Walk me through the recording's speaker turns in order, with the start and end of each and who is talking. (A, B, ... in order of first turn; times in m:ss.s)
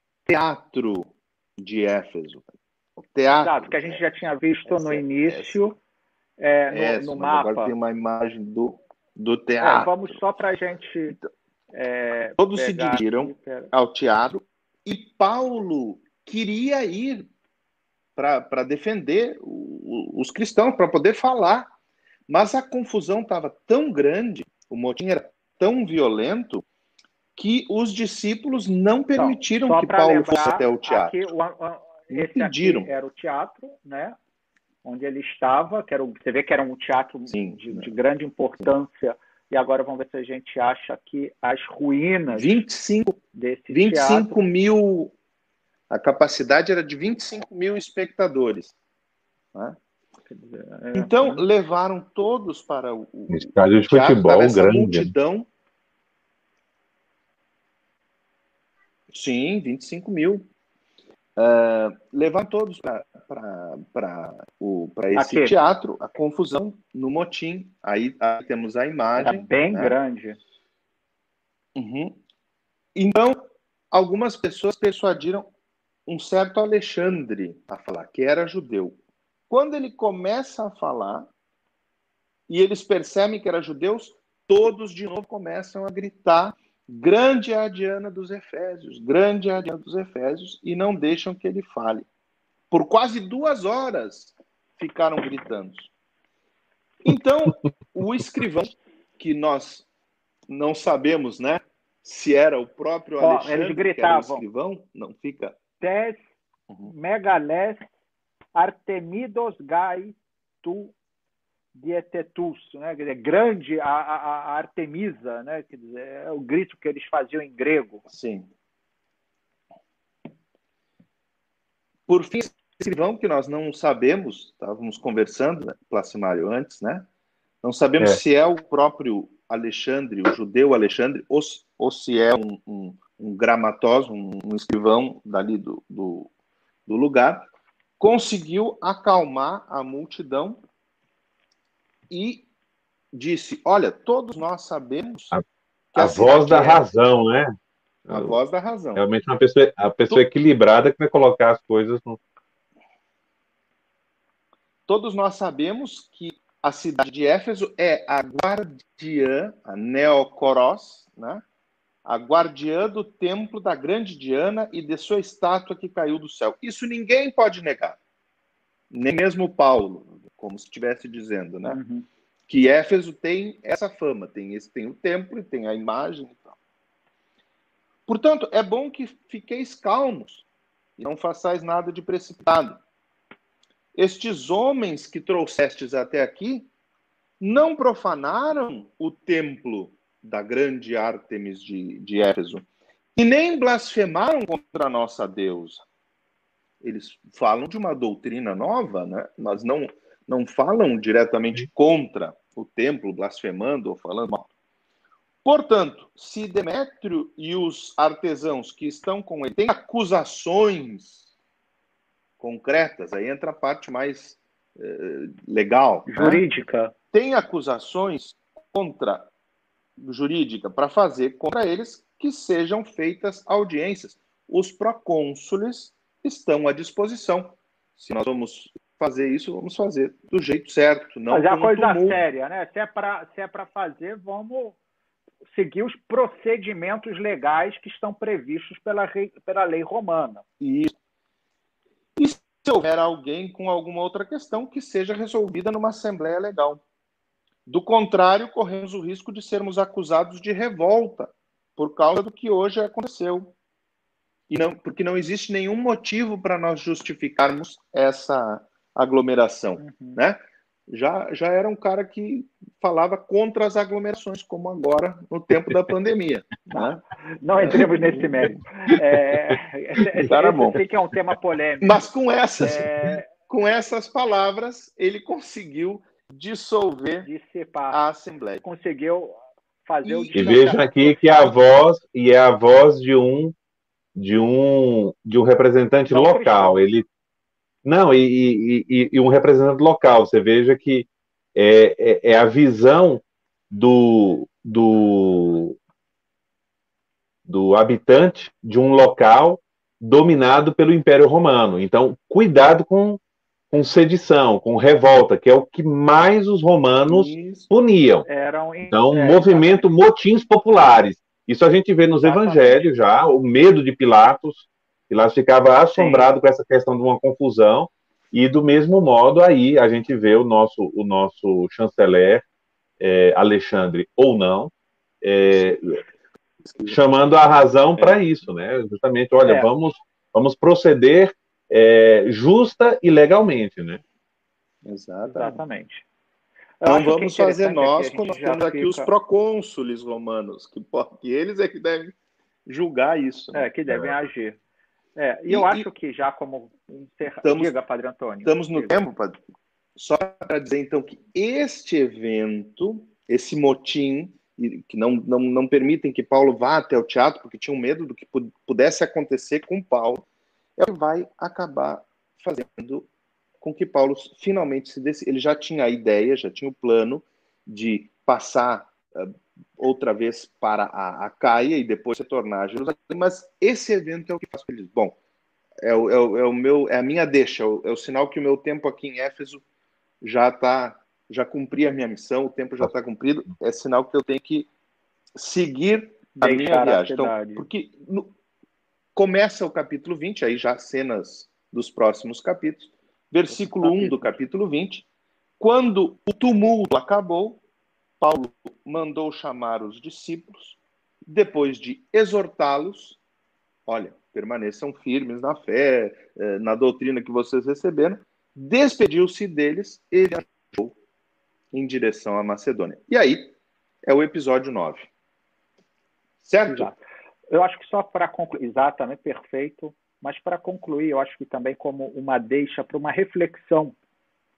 0:00.3-0:04.1 A
0:03.4-0:05.8 B
0:04.7-0:05.6 A
0:06.4-0:07.7 B
0:06.7-0:10.2 A
0:09.6-0:11.2 B
0:11.7-0:13.7 B
0:12.4-0:17.3 A
0:18.2-0:21.7 A
0:22.3-0:26.6 A
0:27.4-0:31.2 A
0:29.2-0:34.2 B
0:32.1-0:32.9 A
0:34.8-0:42.6 B
0:37.3-0:37.9 A
0:42.3-0:43.2 A
0:43.3-0:44.4 B
0:43.7-0:45.1 A
0:45.9-0:48.8 A
0:50.3-0:51.4 B
0:50.9-0:55.5 A
0:53.3-0:55.1 C
0:59.1-1:00.5 A
1:01.4-1:10.0 A
1:05.1-1:05.6 B
1:09.2-1:10.4 B
1:11.8-1:12.2 A
1:13.0-1:15.5 A
1:16.1-1:19.0 A
1:19.5-1:21.3 A
1:22.5-1:32.1 A
1:32.7-1:35.9 A
1:37.0-1:39.9 A
1:40.5-1:45.6 A
1:43.2-1:44.4 B
1:45.8-1:46.2 B
1:46.8-1:47.9 B
1:48.6-1:51.0 B
1:51.8-1:58.0 B
1:58.1-1:58.5 A
2:02.1-2:07.1 A
2:07.6-2:16.3 A
2:16.9-2:17.5 A
2:18.0-2:20.6 A
2:22.1-2:22.5 A
2:23.1-2:25.3 A
2:25.9-2:26.8 A
2:26.0-2:27.5 C
2:28.1-2:28.4 C
2:28.1-2:29.0 A
2:29.0-2:32.2 C
2:34.9-2:41.4 A
2:42.0-2:48.0 A
2:48.9-2:51.8 A
2:51.6-2:52.1 B
2:52.5-2:56.6 A
2:58.1-3:00.5 A
3:01.0-3:02.8 A
3:04.0-3:06.7 A
3:07.4-3:15.8 A
3:16.8-3:24.5 A
3:25.4-3:31.3 A
3:32.4-3:36.4 A
3:36.1-3:36.9 B
3:37.1-3:39.3 A
3:40.0-3:52.2 A
3:51.3-3:54.8 B
3:55.5-4:00.4 B
4:00.6-4:00.9 A
4:02.2-4:06.8 A
4:07.7-4:13.5 A
4:14.5-4:27.0 A
4:19.8-4:20.2 B
4:26.7-4:32.0 B
4:27.6-4:28.6 A
4:30.3-4:30.8 A
4:31.8-4:37.3 A
4:32.6-4:33.3 B
4:37.2-4:38.0 B
4:37.9-4:38.6 A
4:38.6-4:41.5 B
4:40.0-4:40.9 A
4:40.4-4:43.5 C
4:44.2-4:47.0 C
4:46.1-4:46.8 B
4:47.8-4:55.8 C
4:57.5-5:03.2 C
5:03.7-5:08.3 C
5:07.1-5:07.7 A
5:08.3-5:09.9 B
5:08.9-5:22.4 C
5:12.2-5:12.9 B
5:15.9-5:16.3 B
5:23.0-5:26.0 C
5:26.6-5:27.0 A
5:26.9-5:34.0 C
5:29.4-5:29.7 B
5:34.8-5:35.6 A
5:35.3-5:36.0 B
5:36.8-5:39.1 B
5:36.8-5:42.2 A
5:42.7-5:43.7 A
5:43.5-5:44.6 B
5:45.2-5:49.0 B
5:45.5-5:45.9 A
5:47.4-5:47.7 A
5:48.4-5:49.4 A
5:50.0-6:00.2 A
6:00.8-6:03.1 A
6:03.6-6:15.2 A
6:15.8-6:19.6 A
6:20.2-6:24.7 A
6:25.4-6:28.3 A
6:26.4-6:27.7 B
6:29.2-6:35.1 A
6:33.5-6:34.4 B
6:35.6-6:37.6 A
6:38.2-6:43.2 A
6:43.9-6:51.0 A
6:51.7-6:55.1 A
6:56.4-6:56.9 A
6:56.6-6:57.0 B
6:57.5-7:04.0 B